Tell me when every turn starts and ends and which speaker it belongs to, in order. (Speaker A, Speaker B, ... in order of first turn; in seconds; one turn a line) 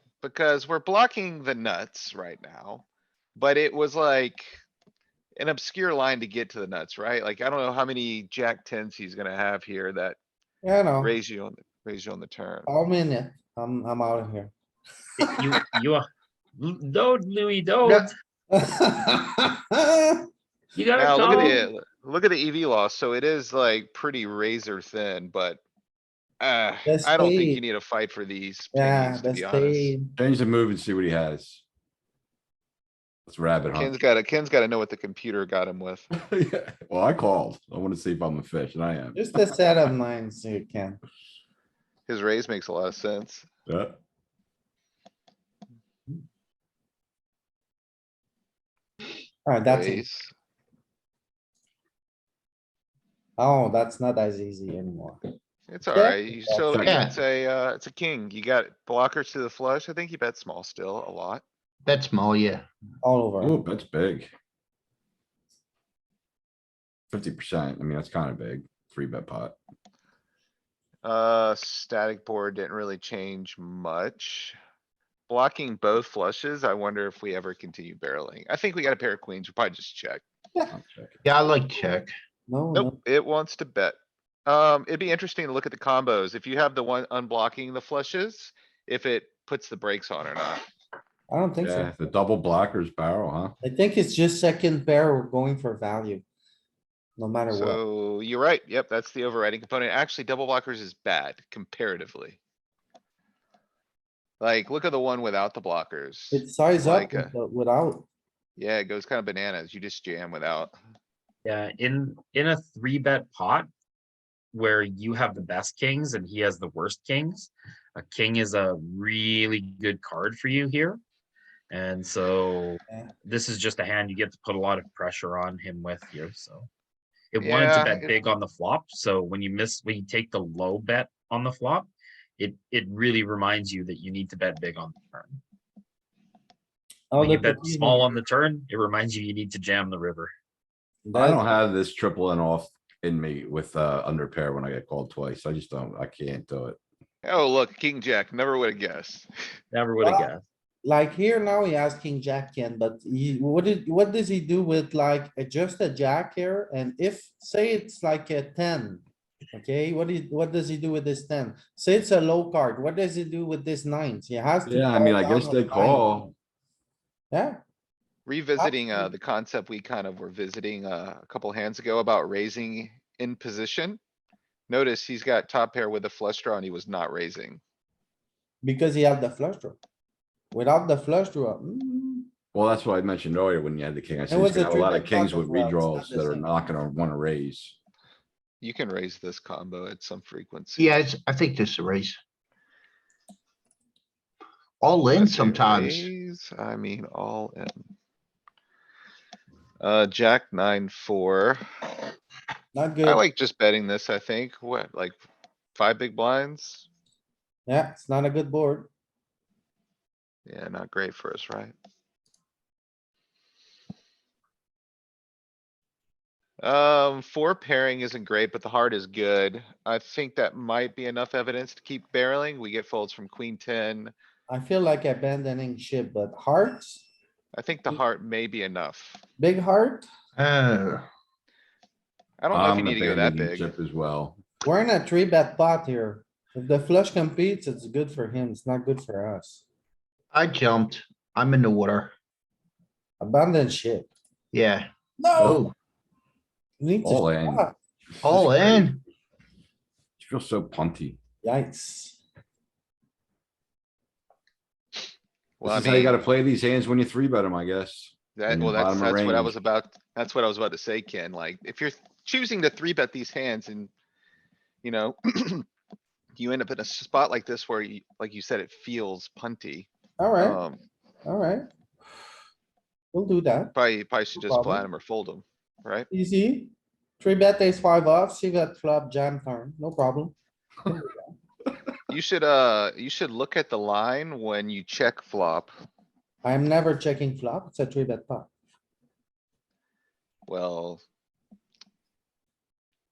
Speaker A: 0.2-2.9
Speaker A: 3.4-4.6
Speaker A: 5.4-10.2
Speaker B: 10.6-11.1
Speaker A: 11.0-12.7
Speaker B: 12.7-14.5
Speaker C: 15.2-16.0
Speaker C: 16.6-18.1
Speaker B: 17.9-20.3
Speaker C: 20.8-21.6
Speaker A: 21.0-25.6
Speaker B: 21.2-21.6
Speaker A: 26.4-29.9
Speaker B: 26.9-27.6
Speaker B: 28.7-30.1
Speaker D: 30.2-31.6
Speaker D: 33.3-34.0
Speaker A: 33.7-36.1
Speaker D: 36.1-39.9
Speaker B: 39.1-41.0
Speaker A: 42.1-43.5
Speaker D: 43.7-44.0
Speaker B: 49.5-50.0
Speaker A: 49.7-50.3
Speaker B: 53.4-55.2
Speaker A: 55.7-61.4
Speaker B: 55.9-56.7
Speaker D: 56.7-57.0
Speaker E: 56.8-57.1
Speaker E: 61.9-62.6
Speaker B: 63.0-63.6
Speaker D: 63.4-64.3
Speaker D: 67.1-69.6
Speaker A: 71.0-74.6
Speaker A: 75.3-80.2
Speaker D: 80.7-81.2
Speaker E: 81.2-82.1
Speaker B: 82.5-83.0
Speaker A: 82.7-90.6
Speaker B: 91.3-91.9
Speaker D: 91.6-93.5
Speaker B: 93.6-96.2
Speaker B: 97.2-97.8
Speaker A: 97.5-102.4
Speaker A: 104.4-107.3
Speaker B: 106.3-108.1
Speaker A: 108.6-110.7
Speaker C: 111.5-113.7
Speaker C: 114.5-121.0
Speaker C: 121.7-126.7
Speaker C: 127.3-135.4
Speaker A: 127.4-128.2
Speaker B: 137.1-138.1
Speaker C: 137.2-140.3
Speaker B: 141.0-141.5
Speaker D: 141.1-146.8
Speaker A: 147.2-149.3
Speaker C: 149.7-150.4
Speaker B: 150.0-150.3
Speaker B: 150.8-159.0
Speaker B: 159.5-166.2
Speaker D: 164.7-166.3
Speaker B: 167.3-167.6
Speaker A: 168.3-174.0
Speaker B: 168.6-169.1
Speaker A: 174.7-177.6
Speaker B: 178.6-179.8
Speaker B: 180.5-182.3
Speaker D: 182.5-187.8
Speaker B: 184.3-186.5
Speaker A: 188.6-190.9
Speaker E: 190.8-192.2
Speaker E: 194.8-196.1
Speaker A: 195.1-197.9
Speaker A: 199.8-201.6
Speaker B: 202.7-203.2
Speaker A: 203.1-205.2
Speaker A: 205.8-206.9
Speaker B: 207.7-208.9
Speaker A: 210.5-211.7
Speaker A: 216.6-224.1
Speaker B: 224.5-227.1
Speaker A: 227.5-229.2
Speaker B: 229.4-230.1
Speaker E: 230.4-231.1
Speaker A: 232.4-233.7
Speaker D: 232.5-234.4
Speaker B: 234.6-239.6
Speaker E: 240.3-242.1
Speaker B: 243.2-244.1
Speaker E: 244.5-245.7
Speaker B: 245.2-245.6
Speaker B: 246.8-247.7
Speaker D: 247.0-247.7
Speaker D: 248.2-248.9
Speaker E: 248.2-249.0
Speaker D: 250.2-251.2
Speaker B: 251.4-252.2
Speaker A: 255.6-256.2
Speaker D: 255.6-259.6
Speaker A: 258.4-263.9
Speaker A: 264.8-265.7
Speaker A: 266.4-269.9
Speaker B: 270.2-270.6
Speaker A: 270.4-270.8
Speaker B: 271.2-271.7
Speaker B: 273.1-273.7
Speaker A: 273.7-276.1
Speaker B: 274.4-274.9
Speaker B: 276.1-280.3
Speaker B: 280.9-281.3
Speaker A: 282.1-285.7
Speaker B: 286.4-288.5
Speaker A: 290.5-291.0